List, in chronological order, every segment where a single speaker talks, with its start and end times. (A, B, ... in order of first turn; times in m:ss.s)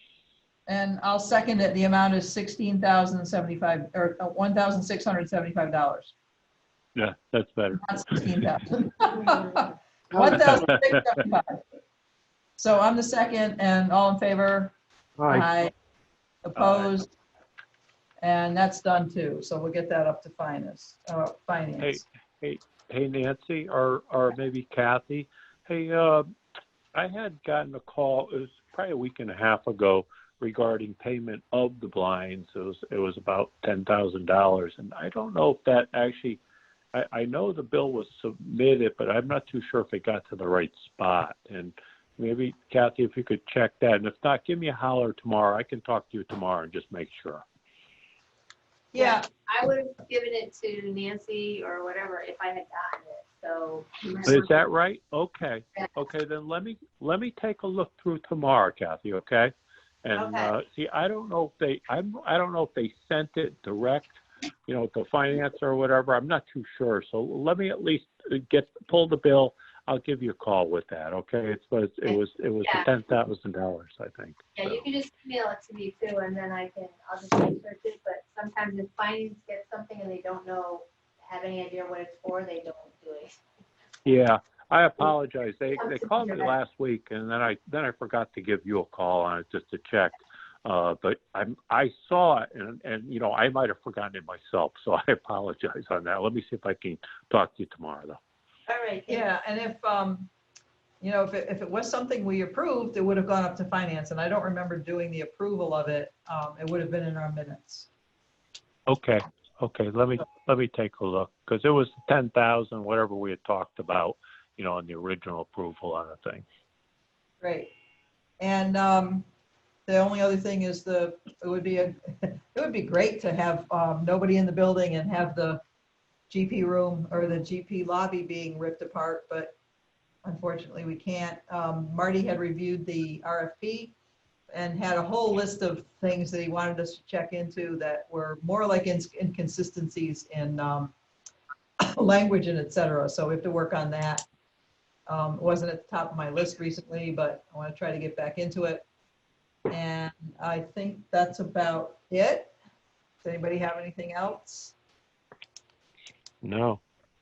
0:00.7-0:06.1 A
0:06.9-0:07.9 B
0:07.8-0:11.7 A
0:10.3-0:10.9 B
0:12.6-0:14.7 A
0:15.3-0:15.7 A
0:16.4-0:17.1 A
0:16.6-0:17.0 B
0:18.2-0:22.0 A
0:21.8-0:26.3 B
0:26.9-0:36.4 B
0:36.9-0:47.4 B
0:48.9-0:49.2 A
0:48.9-0:54.6 C
0:54.2-0:59.5 B
1:00.0-1:14.8 B
1:00.1-1:00.5 C
1:12.0-1:12.9 C
1:14.5-1:23.4 C
1:24.0-1:38.2 B
1:25.7-1:26.5 C
1:38.7-1:39.3 C
1:39.1-1:40.3 A
1:41.0-1:47.9 A
1:48.9-1:56.4 B
1:57.4-1:57.7 A
1:58.4-1:59.3 A
1:59.9-2:05.6 A
2:06.3-2:09.6 A
2:10.2-2:13.9 A
2:14.5-2:20.9 A
2:21.8-2:24.2 A
2:25.1-2:28.8 A
2:29.7-2:32.5 A
2:33.2-2:34.7 A
2:36.4-2:36.8 B